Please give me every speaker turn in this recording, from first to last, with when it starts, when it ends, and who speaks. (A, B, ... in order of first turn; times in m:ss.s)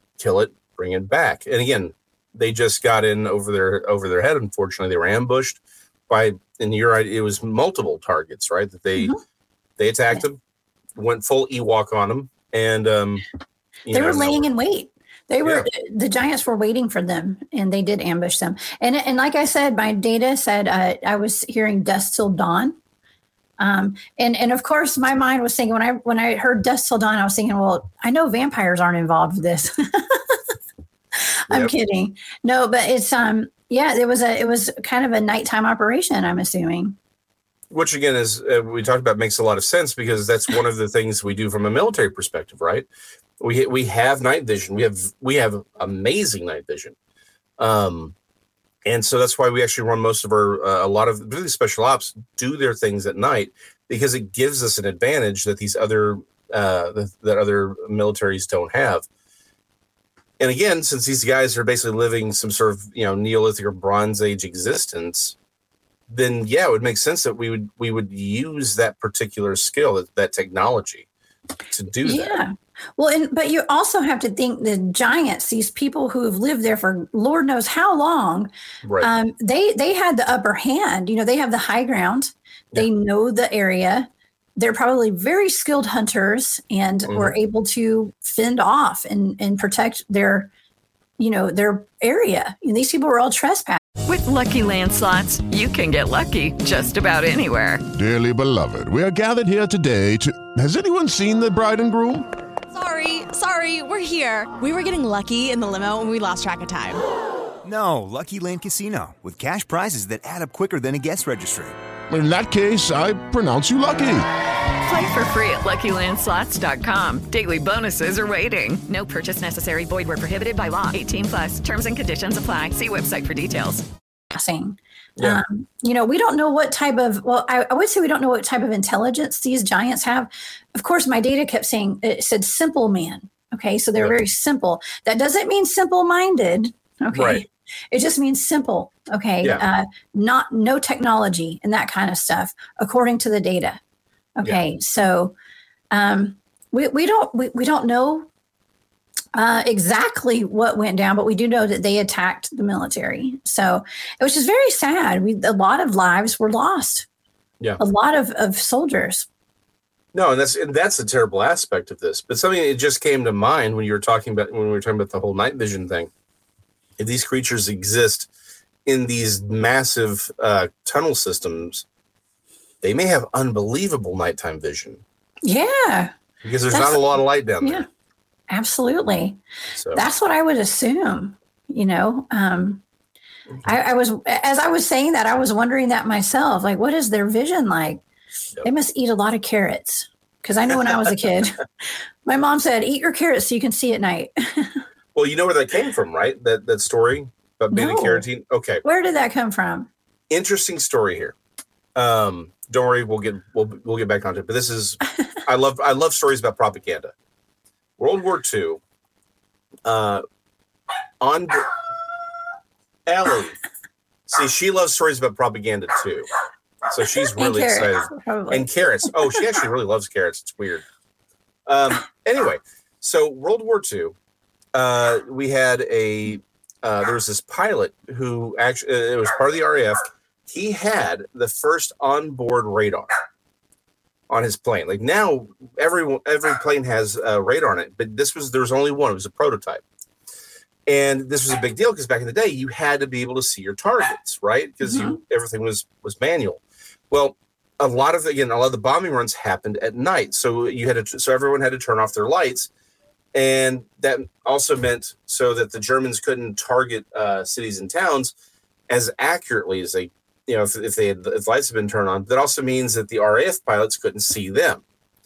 0:00.2-0:09.1 A
0:09.8-0:10.4 A
0:11.0-0:13.2 A
0:13.9-0:14.5 A
0:13.9-0:22.8 B
0:23.6-0:30.4 B
0:31.3-0:37.0 B
0:37.7-0:42.9 A
0:43.4-0:46.9 A
0:47.6-0:48.1 A
0:48.8-0:59.0 A
1:00.4-1:05.4 A
1:06.1-1:11.1 A
1:11.7-1:12.4 A
1:12.0-1:18.5 B
1:18.8-1:19.1 A
1:19.0-1:30.5 B
1:27.1-1:27.4 A
1:31.2-1:33.8 B
1:34.1-1:37.8 C
1:37.9-1:42.3 D
1:42.7-1:47.0 E
1:47.6-1:51.8 F
1:52.1-1:54.3 D
1:54.8-2:03.8 C
2:04.3-2:23.8 B
2:05.2-2:05.4 A
2:17.1-2:17.4 A
2:24.4-2:25.3 B
2:25.9-2:28.3 B
2:29.4-2:37.1 B
2:37.8-2:39.3 B
2:40.1-2:46.1 A
2:47.0-2:48.3 A
2:48.8-2:51.8 A
2:52.8-2:55.0 A
2:55.4-2:56.1 B
2:56.4-2:57.8 A
2:56.7-2:57.1 B
2:58.5-2:59.4 B
2:59.8-3:00.0 A
2:59.9-3:02.8 B
3:03.6-3:08.0 B
3:08.6-3:14.8 B
3:10.8-3:11.1 A
3:15.1-3:18.8 A
3:17.7-3:18.3 B
3:18.8-3:19.9 B
3:20.3-3:21.4 A
3:21.9-3:27.1 A
3:28.0-3:28.8 A
3:29.9-3:30.2 A
3:31.2-3:31.7 A
3:33.1-3:33.6 A
3:34.3-3:36.3 A
3:36.9-3:40.8 A
3:37.4-3:38.7 B
3:41.7-3:44.1 A
3:44.7-3:53.1 A
3:54.3-3:59.8 A
4:00.9-4:12.7 A
4:04.8-4:05.2 B
4:13.4-4:18.3 A
4:18.9-4:24.8 A